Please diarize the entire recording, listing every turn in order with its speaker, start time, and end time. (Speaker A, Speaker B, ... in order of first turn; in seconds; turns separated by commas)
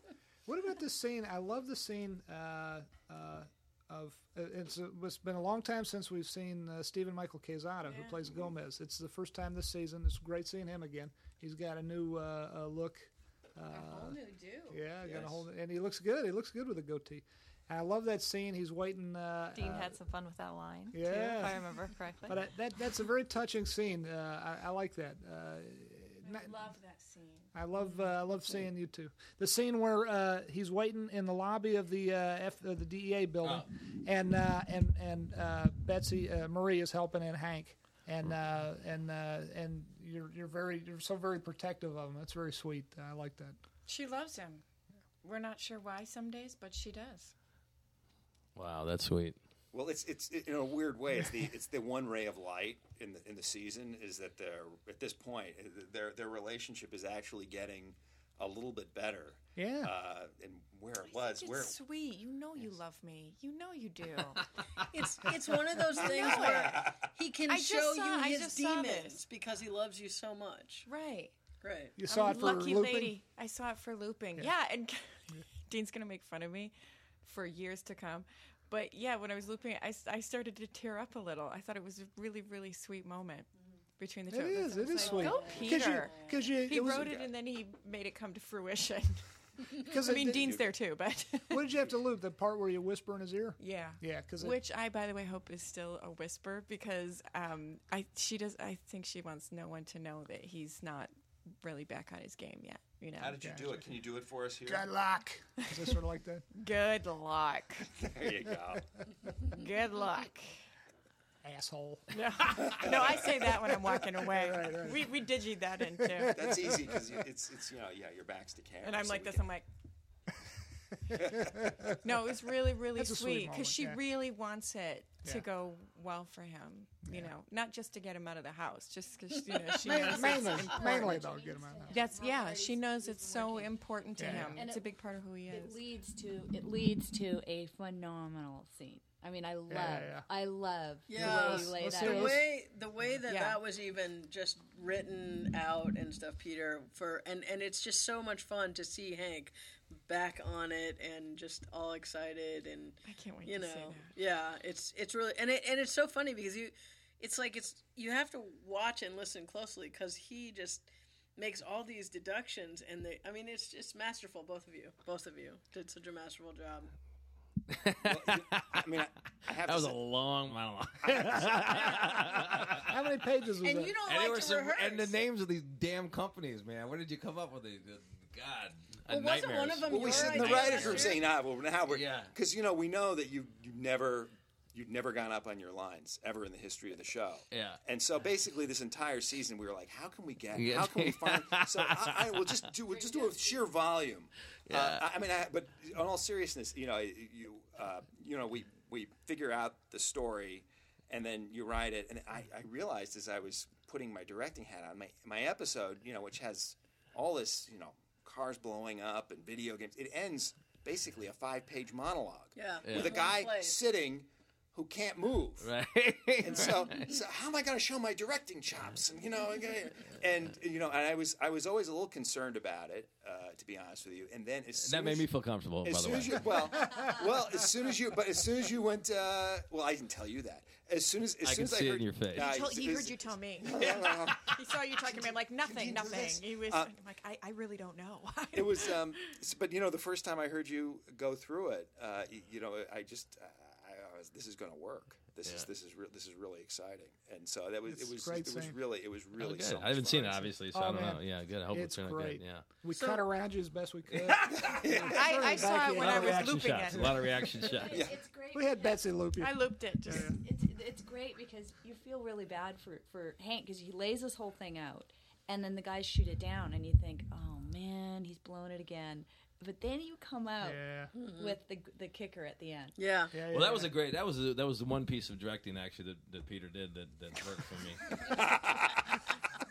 Speaker A: 0.5-20.0, Speaker B: 7.8-8.2, Speaker B: 13.7-14.8, Speaker C: 15.1-15.4, Speaker D: 19.5-22.4, Speaker A: 20.9-21.6, Speaker A: 22.3-26.6, Speaker B: 26.2-27.6, Speaker A: 27.5-43.6, Speaker B: 43.9-44.6, Speaker B: 45.2-47.3, Speaker E: 48.5-49.4, Speaker C: 49.7-61.8, Speaker A: 59.6-59.9, Speaker B: 61.0-64.5, Speaker F: 64.9-70.9, Speaker B: 66.0-66.8, Speaker C: 66.0-67.1, Speaker B: 67.5-69.2, Speaker B: 70.8-71.4, Speaker F: 71.6-72.0, Speaker A: 72.0-73.2, Speaker B: 72.0-91.6, Speaker A: 84.3-87.1, Speaker F: 84.8-86.6, Speaker C: 86.8-87.3, Speaker A: 89.9-90.7, Speaker A: 91.5-94.6, Speaker B: 93.6-103.4, Speaker C: 103.2-104.9, Speaker A: 103.4-103.8, Speaker A: 104.7-106.4, Speaker B: 106.5-107.9, Speaker C: 108.0-108.9, Speaker B: 109.5-110.6, Speaker A: 111.4-112.9, Speaker B: 112.1-116.4, Speaker A: 114.0-115.2, Speaker A: 116.0-117.2, Speaker C: 116.3-119.5, Speaker B: 118.8-119.7, Speaker C: 121.1-121.5, Speaker A: 121.3-122.0, Speaker B: 122.0-131.1, Speaker A: 123.0-124.0, Speaker A: 127.0-127.3, Speaker F: 129.7-130.2, Speaker A: 129.8-132.1, Speaker G: 130.2-134.9, Speaker B: 131.9-135.8, Speaker A: 134.2-134.6, Speaker G: 135.5-142.4, Speaker A: 139.7-140.3, Speaker F: 141.1-166.9, Speaker A: 141.2-142.4, Speaker B: 143.3-143.6, Speaker B: 153.1-154.1, Speaker E: 167.7-168.9, Speaker C: 168.1-170.0, Speaker E: 169.6-172.9, Speaker C: 171.0-172.8, Speaker A: 172.8-174.0, Speaker F: 173.6-175.2, Speaker E: 174.0-181.2, Speaker F: 179.1-181.3, Speaker C: 179.9-215.7, Speaker E: 181.9-182.3, Speaker E: 187.5-187.8, Speaker E: 190.6-192.5, Speaker E: 194.7-195.1, Speaker F: 212.6-213.8, Speaker E: 212.8-213.2, Speaker E: 215.6-217.2, Speaker C: 216.4-225.3, Speaker E: 224.8-226.9, Speaker C: 225.8-236.9, Speaker E: 231.4-232.6, Speaker B: 232.3-239.2, Speaker C: 238.5-250.5, Speaker A: 247.9-248.8, Speaker E: 249.4-252.7, Speaker A: 250.7-257.4, Speaker F: 252.9-253.3, Speaker E: 254.1-254.8, Speaker C: 254.5-256.2, Speaker B: 255.1-257.4, Speaker E: 255.9-258.1, Speaker G: 257.6-259.0, Speaker C: 257.8-258.1, Speaker A: 258.5-260.4, Speaker B: 259.4-260.4, Speaker G: 260.2-273.0, Speaker A: 270.6-271.1, Speaker F: 271.1-271.6, Speaker F: 273.0-273.4, Speaker A: 273.3-273.9, Speaker E: 273.5-278.5